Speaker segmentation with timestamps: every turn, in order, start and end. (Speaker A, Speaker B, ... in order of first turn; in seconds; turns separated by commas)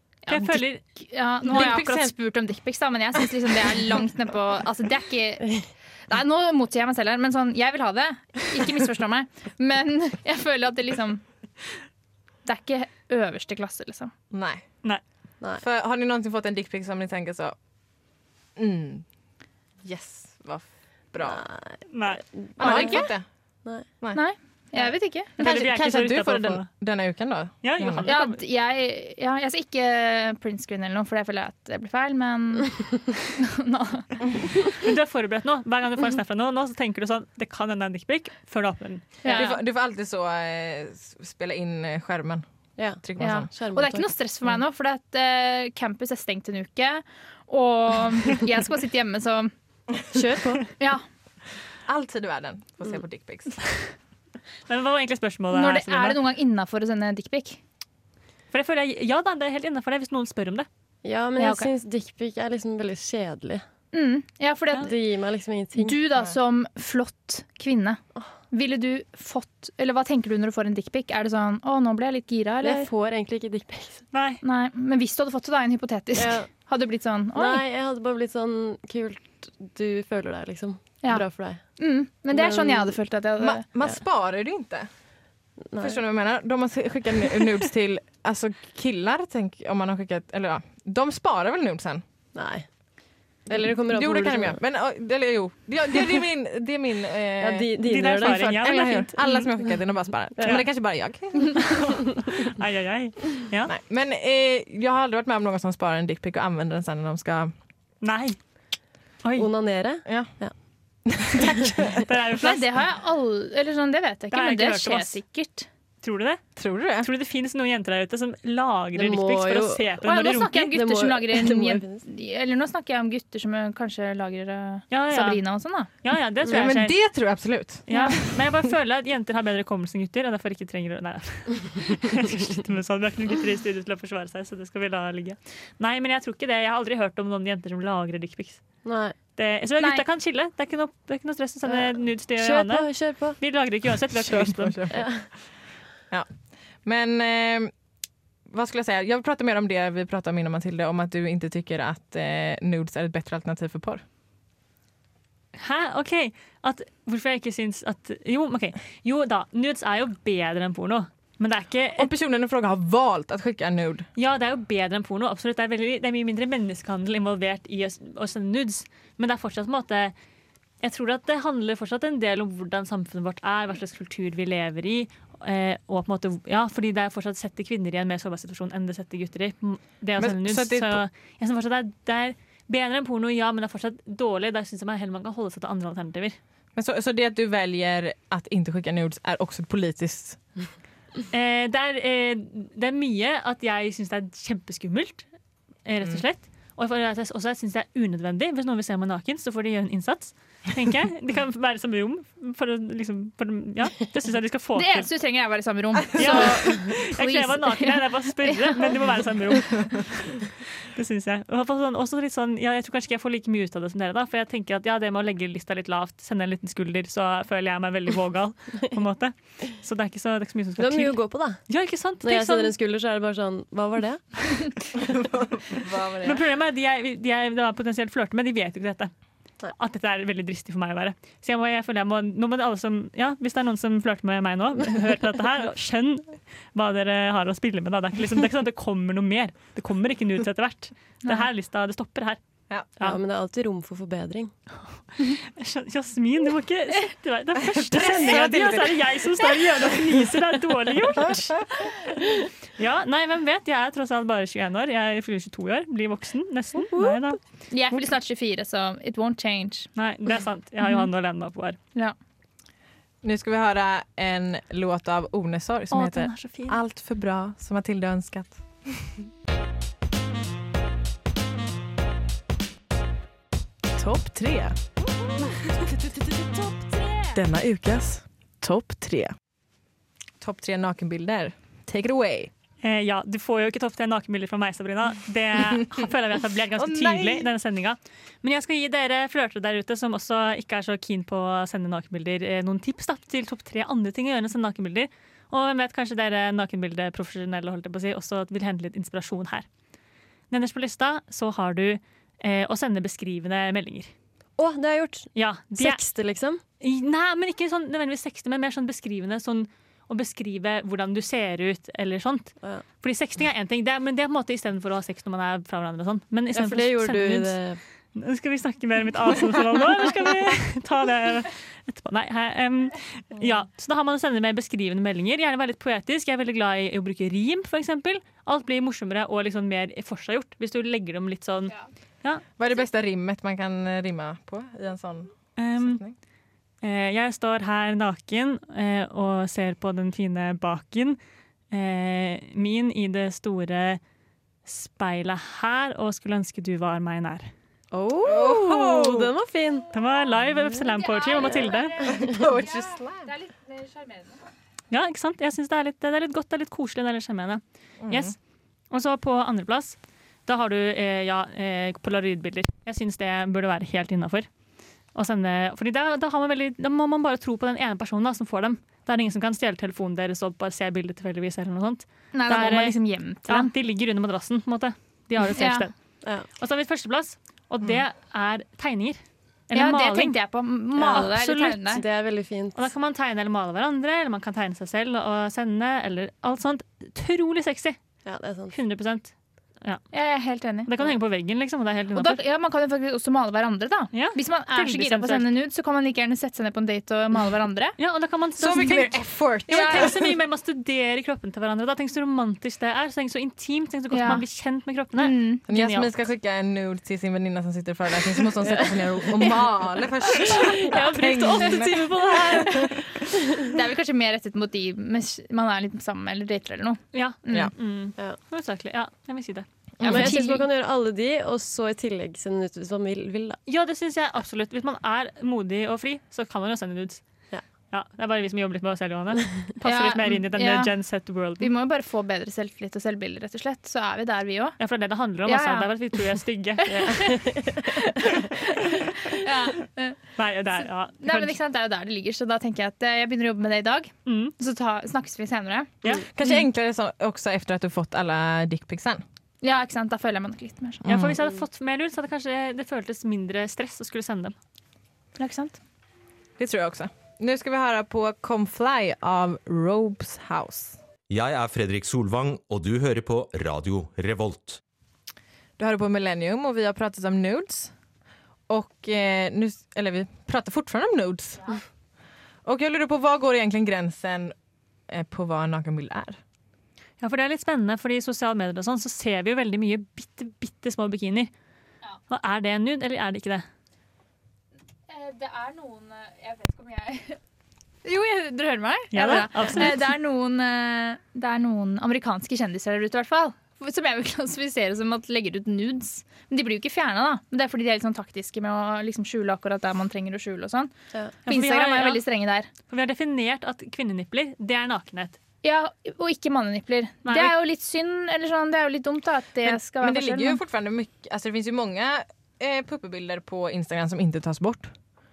Speaker A: 0.2-5.5, Speaker B: 0.3-0.8, Speaker C: 1.5-2.1, Speaker B: 1.5-1.8, Speaker A: 6.1-11.2, Speaker A: 12.4-14.1, Speaker C: 14.3-14.6, Speaker C: 15.6-17.5, Speaker C: 18.6-19.0, Speaker C: 19.8-21.4, Speaker D: 21.2-23.0, Speaker B: 21.9-22.2, Speaker C: 22.6-23.2, Speaker A: 22.6-23.1, Speaker A: 24.1-25.4, Speaker B: 25.4-26.7, Speaker C: 25.4-28.1, Speaker B: 27.6-28.4, Speaker A: 28.0-32.7, Speaker A: 33.4-34.1, Speaker B: 34.7-39.3, Speaker A: 39.2-39.6, Speaker C: 39.2-42.4, Speaker D: 42.8-44.1, Speaker C: 43.0-43.5, Speaker A: 43.2-49.5, Speaker D: 50.1-50.7, Speaker A: 50.8-51.0, Speaker C: 51.9-53.6, Speaker B: 54.7-56.2, Speaker A: 55.5-57.6, Speaker B: 58.5-60.7, Speaker D: 61.0-63.6, Speaker A: 61.4-61.7, Speaker A: 63.9-64.9, Speaker D: 64.8-66.0, Speaker A: 65.7-68.0, Speaker A: 68.5-72.9, Speaker D: 72.6-74.0, Speaker B: 74.1-74.4, Speaker A: 74.4-77.6, Speaker D: 76.2-76.5, Speaker D: 77.3-81.6, Speaker A: 81.0-83.6, Speaker D: 82.3-83.0, Speaker C: 83.4-84.9, Speaker D: 85.7-86.0, Speaker C: 85.8-92.0, Speaker D: 92.3-92.7, Speaker C: 93.5-101.8, Speaker D: 93.5-94.6, Speaker D: 97.4-98.5, Speaker B: 97.8-99.5, Speaker B: 101.6-103.7, Speaker C: 103.7-107.5, Speaker B: 108.0-108.4, Speaker B: 109.2-109.5, Speaker D: 109.3-110.5, Speaker C: 110.0-110.3, Speaker C: 111.1-112.1, Speaker B: 112.0-112.7, Speaker A: 112.4-115.7, Speaker B: 114.3-115.2, Speaker B: 116.0-116.4, Speaker C: 116.6-117.1, Speaker B: 117.0-120.7, Speaker D: 118.9-122.0, Speaker A: 120.0-125.9, Speaker B: 124.9-125.4, Speaker B: 126.0-127.0, Speaker C: 126.5-127.9, Speaker B: 127.9-138.6, Speaker A: 127.9-128.2, Speaker D: 138.8-139.2, Speaker B: 139.4-144.9, Speaker A: 139.8-140.0, Speaker D: 141.7-143.4, Speaker C: 144.1-145.1, Speaker D: 144.9-145.3, Speaker C: 146.8-147.7, Speaker C: 148.5-154.0, Speaker B: 155.5-162.1, Speaker C: 161.9-164.1, Speaker B: 164.2-170.1, Speaker B: 170.8-186.4, Speaker C: 180.2-181.0, Speaker C: 186.7-190.4, Speaker B: 191.3-195.2, Speaker B: 195.8-205.1, Speaker A: 204.8-208.9, Speaker B: 206.2-221.2, Speaker C: 206.2-206.4, Speaker D: 220.8-221.6, Speaker B: 221.7-222.7, Speaker D: 222.2-224.7, Speaker C: 225.0-226.4, Speaker B: 226.2-229.1, Speaker B: 229.7-242.4, Speaker D: 243.0-244.5, Speaker B: 245.2-251.7, Speaker C: 247.6-249.0, Speaker B: 252.8-257.4, Speaker A: 257.7-259.9, Speaker B: 259.9-261.8, Speaker C: 263.2-269.1, Speaker B: 265.9-266.8, Speaker C: 273.9-274.8, Speaker C: 277.3-279.3, Speaker C: 280.4-282.5, Speaker B: 282.8-299.6, Speaker C: 286.8-287.5, Speaker B: 300.5-304.1, Speaker D: 304.6-306.6, Speaker B: 305.3-306.0, Speaker B: 306.8-317.6, Speaker D: 316.5-317.8, Speaker B: 318.1-332.4, Speaker C: 332.6-336.1, Speaker B: 335.6-336.0, Speaker B: 336.8-341.2, Speaker B: 341.7-344.0, Speaker B: 344.6-347.5, Speaker D: 347.9-349.9, Speaker C: 348.2-349.3, Speaker B: 349.9-352.0, Speaker A: 351.0-354.4, Speaker D: 352.0-352.4, Speaker C: 352.0-353.3, Speaker B: 354.9-358.4, Speaker C: 358.0-358.3, Speaker B: 358.9-364.5, Speaker B: 365.1-375.9, Speaker A: 372.3-373.7, Speaker A: 375.5-375.9, Speaker B: 376.5-379.2, Speaker B: 379.7-380.4, Speaker A: 379.7-382.0, Speaker D: 381.0-382.9, Speaker B: 381.1-381.8, Speaker B: 382.7-388.0, Speaker D: 388.2-388.8, Speaker B: 388.7-390.0, Speaker A: 390.1-390.9, Speaker B: 390.9-392.4, Speaker A: 392.1-397.9, Speaker B: 394.1-395.5, Speaker B: 398.0-406.1, Speaker C: 398.6-400.4, Speaker A: 399.7-400.1, Speaker A: 404.1-404.4, Speaker A: 405.2-405.6, Speaker C: 405.7-413.1, Speaker D: 408.6-409.6, Speaker D: 410.4-412.9, Speaker B: 410.9-411.7, Speaker A: 413.6-417.7, Speaker B: 417.1-419.6, Speaker C: 420.0-420.3, Speaker A: 420.0-420.6, Speaker D: 420.0-423.6, Speaker B: 423.7-427.2, Speaker B: 427.9-431.7, Speaker A: 429.8-430.9, Speaker A: 431.6-434.8, Speaker B: 434.8-436.9, Speaker A: 435.4-435.9, Speaker A: 436.8-440.2, Speaker D: 436.9-438.0, Speaker B: 440.4-441.6, Speaker A: 441.2-445.9, Speaker B: 444.2-444.5, Speaker B: 446.0-446.4, Speaker C: 446.3-449.2, Speaker A: 449.6-451.0, Speaker C: 451.0-451.4, Speaker B: 451.1-454.6, Speaker A: 455.4-455.8, Speaker C: 456.6-461.0, Speaker E: 461.3-464.8, Speaker C: 465.8-467.9, Speaker C: 468.7-471.8, Speaker C: 472.6-474.5, Speaker C: 475.1-476.4, Speaker B: 477.2-481.5, Speaker B: 482.3-483.6, Speaker A: 485.1-487.4, Speaker A: 488.0-500.9, Speaker B: 489.1-490.1, Speaker B: 501.4-502.2, Speaker A: 501.4-502.7, Speaker B: 502.9-505.4, Speaker A: 505.6-510.6, Speaker B: 507.2-507.5, Speaker C: 509.6-514.9